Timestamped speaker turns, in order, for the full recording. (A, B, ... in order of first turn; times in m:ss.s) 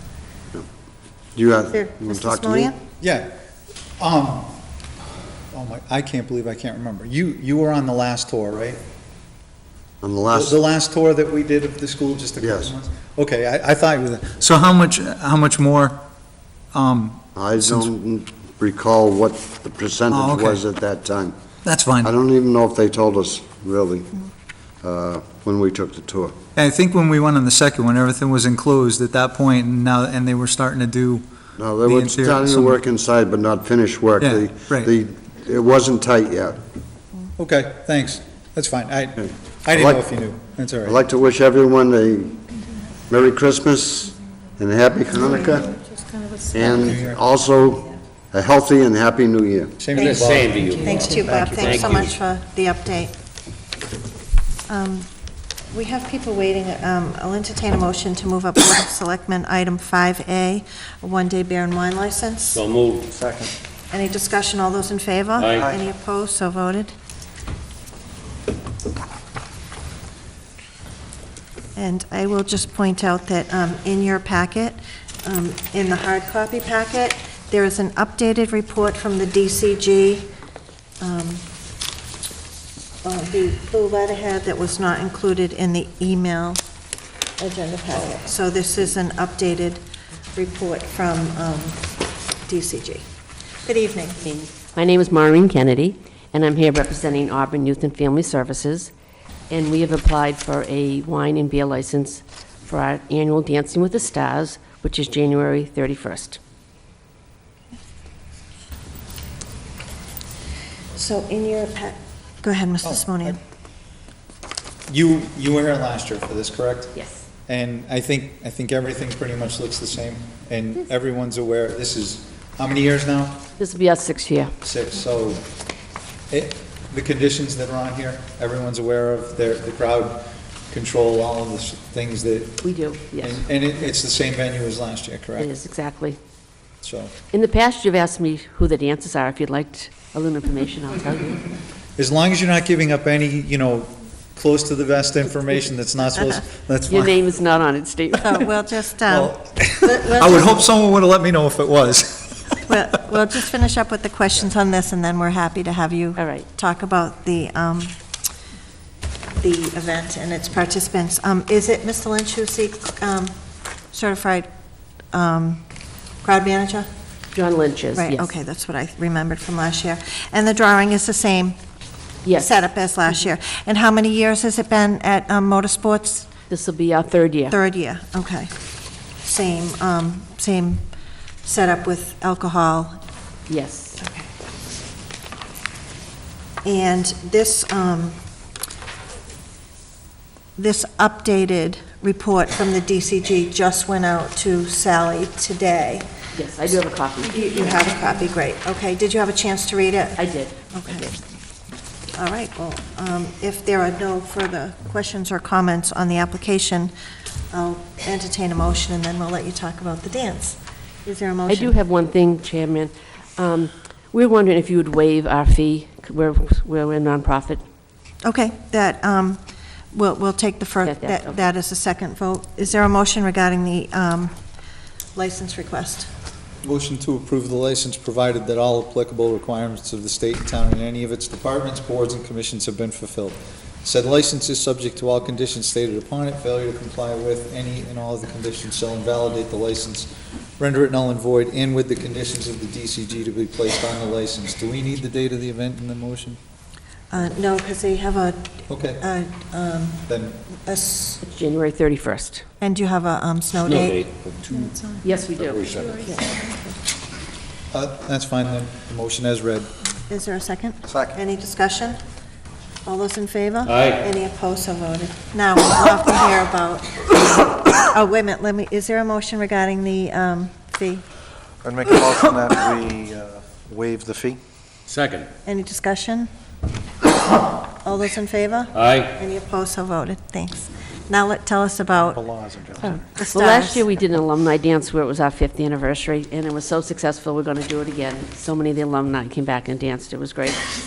0:01.4-0:02.7 A
0:01.7-0:02.8 B
0:03.0-0:03.3 C
0:04.0-0:04.5 C
0:05.5-0:08.8 C
0:10.0-0:10.6 A
0:10.3-0:16.0 C
0:12.4-0:12.7 A
0:16.7-0:17.9 C
0:17.4-0:21.4 A
0:20.1-0:20.6 C
0:21.6-0:22.1 C
0:22.0-0:24.1 A
0:24.8-0:26.4 A
0:26.6-0:31.2 C
0:31.6-0:36.6 A
0:31.8-0:32.8 C
0:34.2-0:34.9 C
0:37.4-0:41.0 C
0:39.8-0:40.0 A
0:40.8-0:42.4 A
0:43.1-0:45.8 A
0:46.5-0:49.8 A
0:46.5-0:47.2 C
0:49.8-0:51.8 C
0:50.0-0:52.1 D
0:50.8-0:53.1 B
0:54.7-0:55.1 B
0:55.7-1:02.6 B
1:02.6-1:03.1 D
1:03.1-1:03.5 E
1:03.9-1:06.9 B
1:05.4-1:05.6 D
1:11.8-1:20.3 B
1:21.0-1:21.4 B
1:23.0-1:26.6 B
1:27.4-1:29.8 B
1:30.4-1:31.9 B
1:32.4-1:33.1 B
1:33.6-1:34.2 B
1:34.2-1:38.9 F
1:39.5-1:46.4 F
1:51.0-1:53.4 B
1:52.8-1:53.4 C
1:54.9-2:03.4 C
1:57.0-1:57.2 F
2:03.6-2:04.5 F
2:04.6-2:05.5 C
2:06.3-2:12.6 C
2:12.6-2:13.4 F
2:13.2-2:15.5 C
2:15.4-2:16.2 F
2:16.8-2:17.1 C
2:17.3-2:21.5 F
2:22.0-2:27.1 C
2:26.2-2:26.4 B
2:26.9-2:28.5 F
2:28.2-2:30.7 B
2:29.1-2:33.2 C
2:32.7-2:38.0 B
2:36.2-2:36.5 F
2:39.4-2:43.4 B
2:43.9-2:44.5 B
2:45.1-2:45.6 B
2:46.2-2:46.9 B
2:47.3-2:48.4 F
2:47.9-2:51.6 B
2:52.2-2:53.2 F
2:52.3-2:56.3 B
2:56.5-2:57.6 F
2:57.5-2:58.5 B
2:59.2-3:00.9 B
3:01.4-3:03.0 B
3:03.5-3:04.0 F
3:04.0-3:04.3 B
3:06.6-3:08.2 B
3:10.6-3:16.1 B
3:16.3-3:17.9 F
3:17.2-3:20.2 B
3:20.2-3:21.2 F
3:20.7-3:21.1 B
3:22.2-3:26.9 B
3:27.5-3:31.7 B
3:31.5-3:37.6 F
3:38.2-3:44.4 B
3:40.8-3:41.4 F
3:45.2-3:46.1 B
3:46.6-4:06.4 C
4:07.1-4:11.2 B
4:08.7-4:09.0 C
4:10.1-4:10.4 C
4:11.2-4:12.4 F
4:12.6-4:14.0 B
4:13.7-4:14.3 D
4:15.0-4:16.2 F
4:17.7-4:19.7 C
4:20.1-4:22.0 B
4:22.9-4:27.0 B
4:23.7-4:24.0 D
4:27.8-4:31.0 B
4:31.6-4:34.4 E
4:34.9-4:35.3 D
4:35.4-4:36.3 B
4:37.6-4:42.3 B
4:38.8-4:39.1 D
4:42.0-4:43.0 E
4:42.8-4:50.7 F
4:43.2-4:43.8 B